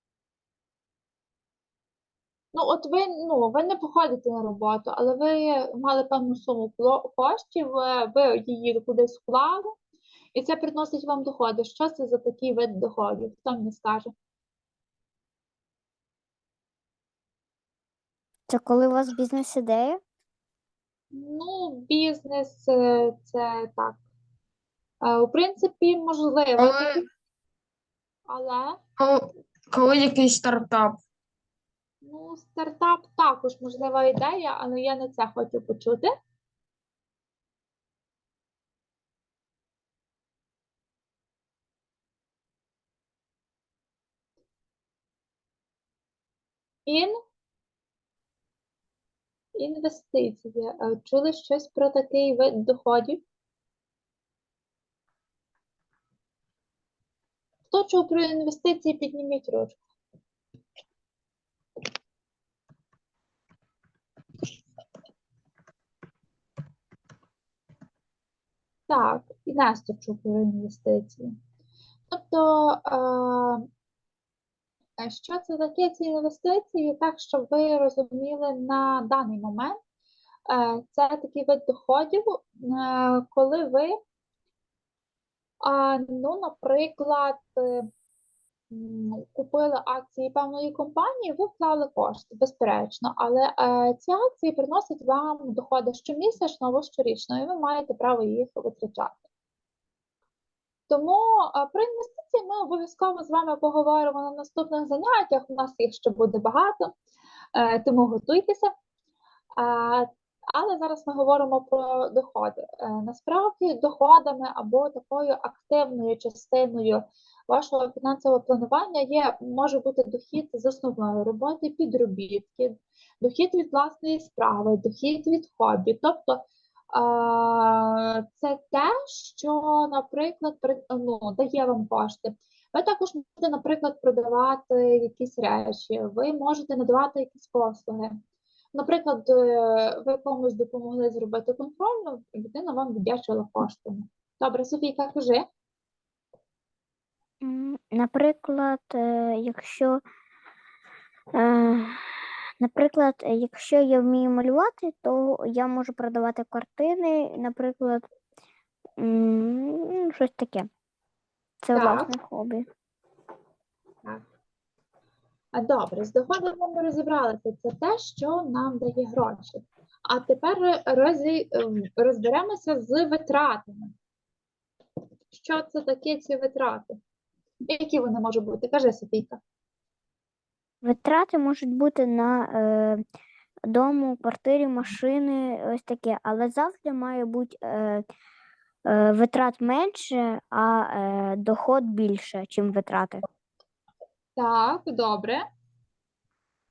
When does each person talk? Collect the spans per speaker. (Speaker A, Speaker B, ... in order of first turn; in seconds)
Speaker A: 2.5-9.7, 10.3-14.1, 21.1-24.0, 25.0-27.0, 28.3-28.8, 32.0-36.1, 46.9-47.1, 49.5-53.2, 57.7-59.8, 68.9-71.3, 72.1-73.7, 75.0-79.8, 80.5-84.0, 85.6-87.9, 88.7-99.2, 100.9-106.9, 107.5-108.7, 109.6-138.2, 138.7-145.4, 161.7-162.1, 165.5-173.9, 175.3-177.0, 177.7-179.4, 194.3-195.4
Speaker B: 18.5-20.0, 147.4-150.0, 151.3-152.0, 152.6-158.1, 159.0-160.7, 161.6-162.7, 180.8-183.0, 183.7-188.0, 188.8-193.2
Speaker C: 26.6-27.0, 29.0-31.0